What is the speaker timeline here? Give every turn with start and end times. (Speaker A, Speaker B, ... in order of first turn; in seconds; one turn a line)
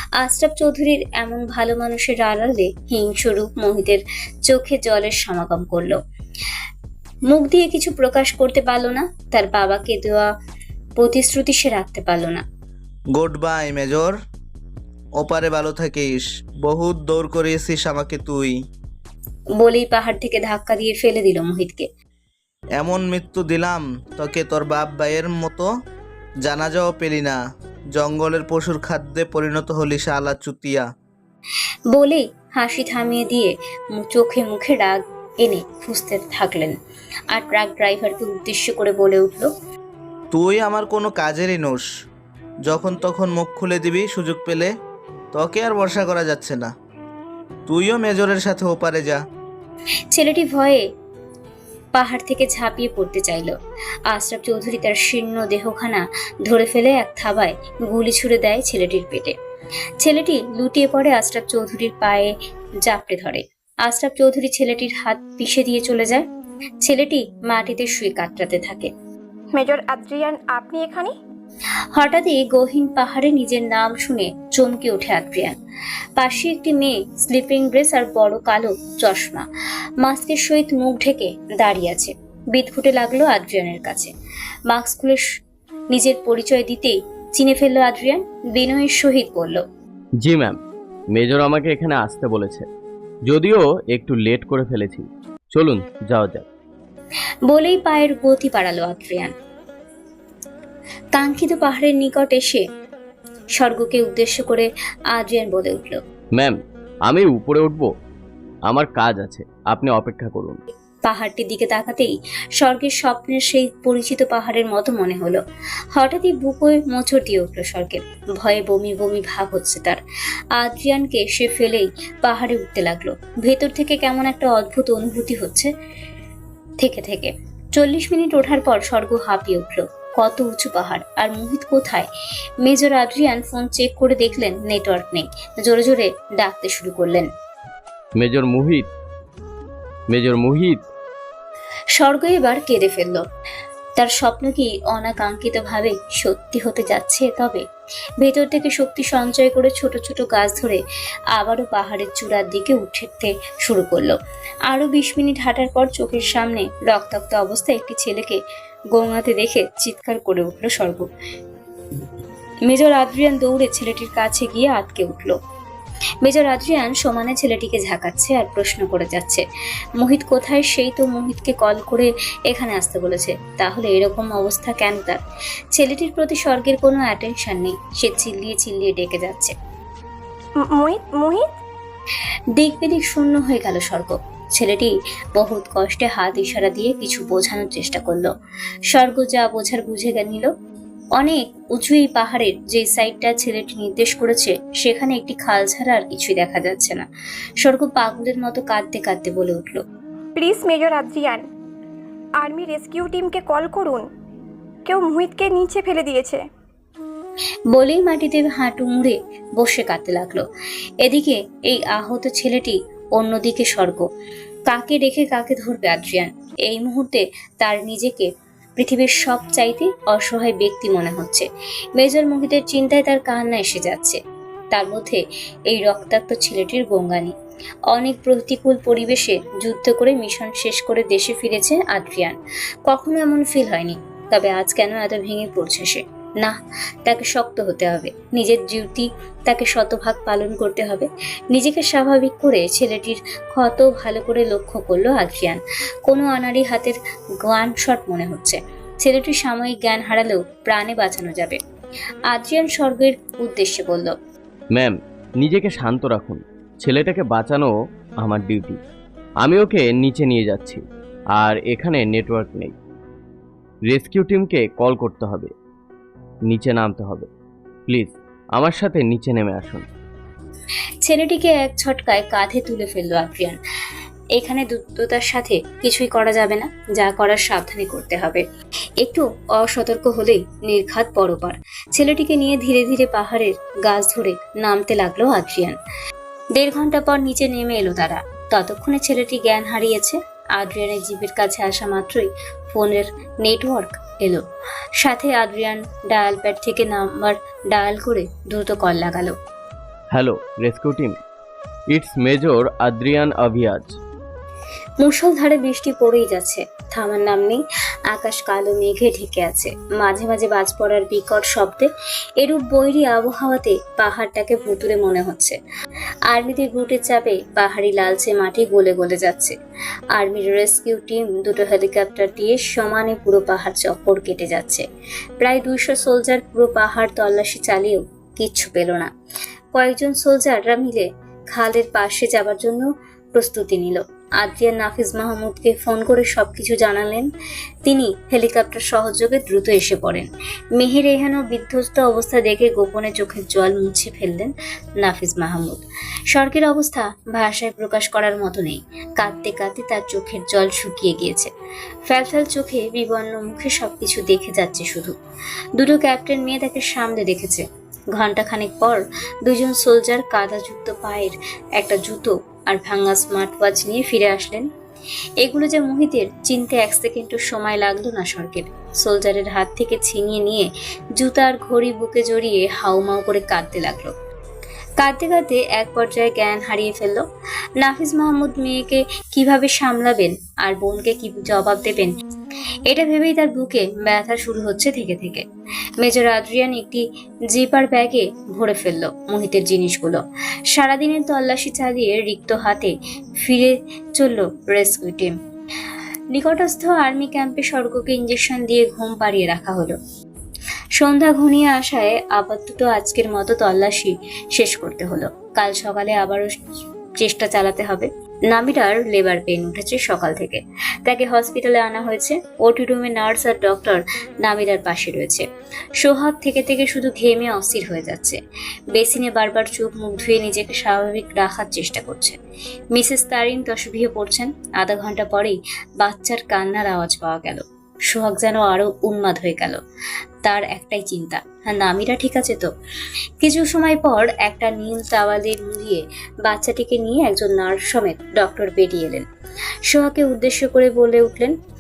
Speaker A: 0.2-6.0
Speaker A: 7.3-10.3
Speaker A: 11.0-12.4
Speaker B: 13.1-14.2
Speaker B: 15.2-18.6
Speaker A: 19.6-21.9
Speaker B: 22.8-25.7
Speaker B: 26.4-27.4
Speaker B: 27.9-30.9
Speaker A: 31.9-36.8
Speaker A: 37.3-39.5
Speaker B: 40.3-41.9
Speaker B: 42.7-44.7
Speaker B: 45.3-46.7
Speaker B: 47.7-49.2
Speaker A: 50.1-50.9
Speaker A: 51.9-53.6
Speaker A: 54.1-59.4
Speaker A: 60.0-66.3
Speaker A: 66.8-68.9
Speaker C: 69.5-71.1
Speaker A: 71.9-75.6
Speaker A: 76.2-79.5
Speaker A: 80.0-84.1
Speaker A: 84.7-85.3
Speaker A: 85.9-89.6
Speaker D: 90.2-90.6
Speaker D: 91.1-92.7
Speaker D: 93.3-96.5
Speaker A: 97.5-99.3
Speaker A: 101.1-102.7
Speaker A: 103.6-106.0
Speaker D: 106.3-107.9
Speaker D: 108.7-110.6
Speaker A: 111.0-115.4
Speaker A: 115.9-120.0
Speaker A: 120.6-125.7
Speaker A: 126.8-132.1
Speaker A: 132.6-137.3
Speaker D: 138.2-138.9
Speaker D: 140.1-140.8
Speaker A: 142.0-143.2
Speaker A: 144.0-147.6
Speaker A: 148.2-150.8
Speaker A: 151.3-154.2
Speaker A: 154.7-158.4
Speaker A: 158.9-161.1
Speaker A: 162.7-165.4
Speaker A: 166.2-169.4
Speaker A: 170.0-175.2
Speaker A: 175.8-179.6
Speaker C: 180.7-181.5
Speaker A: 182.6-188.3
Speaker A: 188.9-190.5
Speaker A: 191.2-197.1
Speaker A: 197.6-199.8
Speaker C: 200.3-201.5
Speaker C: 202.4-204.1
Speaker C: 204.9-206.4
Speaker A: 207.7-210.4
Speaker A: 211.0-214.0
Speaker A: 214.7-224.2
Speaker A: 224.7-227.3
Speaker A: 227.9-251.6
Speaker A: 252.3-254.2
Speaker D: 254.7-258.8
Speaker D: 259.4-260.8
Speaker D: 261.4-262.7
Speaker D: 263.9-265.5
Speaker D: 266.5-267.3
Speaker D: 267.9-269.8
Speaker A: 271.0-273.6
Speaker A: 274.4-278.4
Speaker A: 279.0-285.8
Speaker A: 286.6-294.4
Speaker A: 295.0-299.4
Speaker D: 300.1-301.2
Speaker D: 301.9-304.0
Speaker A: 305.0-311.9
Speaker A: 312.4-315.6
Speaker A: 316.3-319.6
Speaker A: 320.1-324.9
Speaker A: 325.4-329.1
Speaker A: 329.7-337.3
Speaker A: 337.9-351.5
Speaker A: 352.1-355.2
Speaker A: 355.8-364.7
Speaker A: 365.4-374.1
Speaker A: 375.0-377.2
Speaker A: 377.8-382.1
Speaker A: 382.9-385.4
Speaker A: 386.0-395.4
Speaker A: 396.3-400.0
Speaker A: 401.0-406.6
Speaker A: 407.2-415.5
Speaker A: 416.0-418.4
Speaker A: 418.9-422.4
Speaker A: 422.9-429.8
Speaker A: 430.4-432.7
Speaker A: 433.4-439.2
Speaker A: 439.9-441.6